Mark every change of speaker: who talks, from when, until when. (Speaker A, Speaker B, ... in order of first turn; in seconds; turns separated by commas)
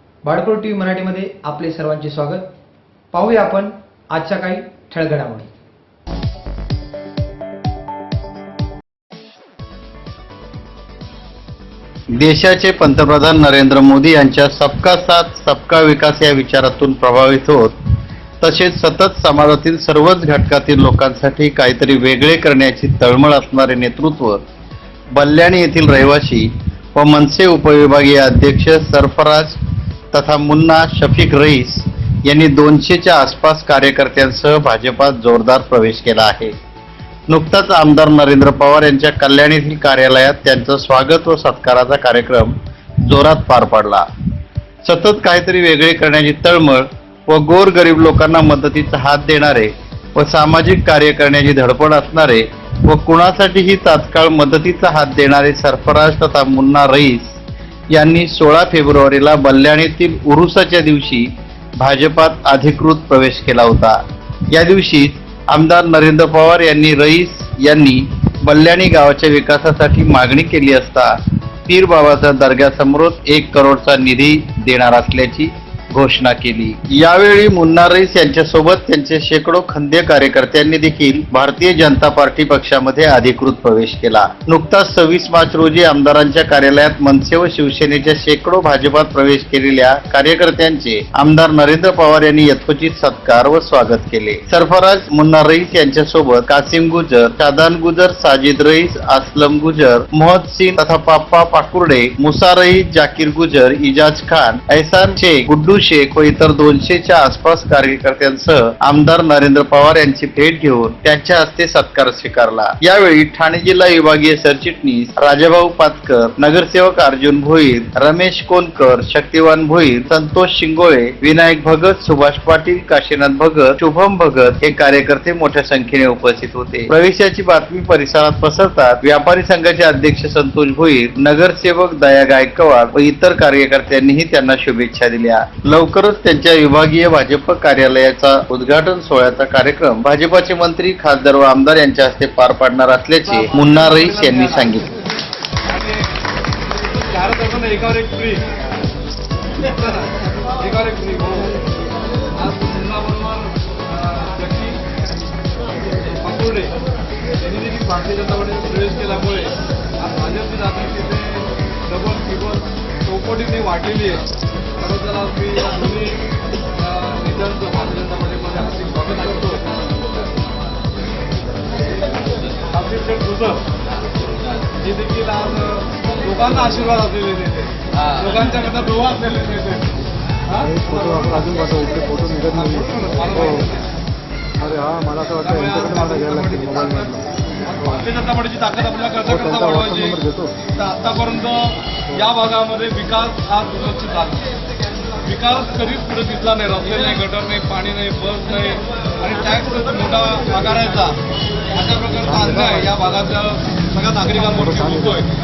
Speaker A: 0.2-2.4, Speaker A: 3.1-5.5, Speaker B: 12.2-17.8, Speaker B: 18.4-24.4, Speaker B: 25.1-29.6, Speaker B: 30.1-36.5, Speaker B: 37.3-44.1, Speaker B: 44.8-57.4, Speaker B: 57.9-64.0, Speaker B: 64.5-144.9, Speaker C: 143.2-144.9, Speaker C: 145.7-146.1, Speaker C: 147.0-148.5, Speaker C: 149.6-151.5, Speaker C: 152.3-154.8, Speaker C: 156.1-156.7, Speaker C: 157.4-164.2, Speaker C: 164.8-166.2, Speaker C: 166.8-169.7, Speaker C: 172.7-173.6, Speaker C: 174.8-179.9, Speaker C: 180.5-181.4, Speaker D: 180.6-183.6, Speaker C: 182.5-183.9, Speaker D: 184.6-188.0, Speaker C: 185.4-190.2, Speaker D: 189.3-190.5, Speaker C: 190.8-194.5, Speaker C: 195.2-201.2, Speaker C: 201.7-205.3, Speaker D: 202.3-202.9, Speaker D: 204.5-205.2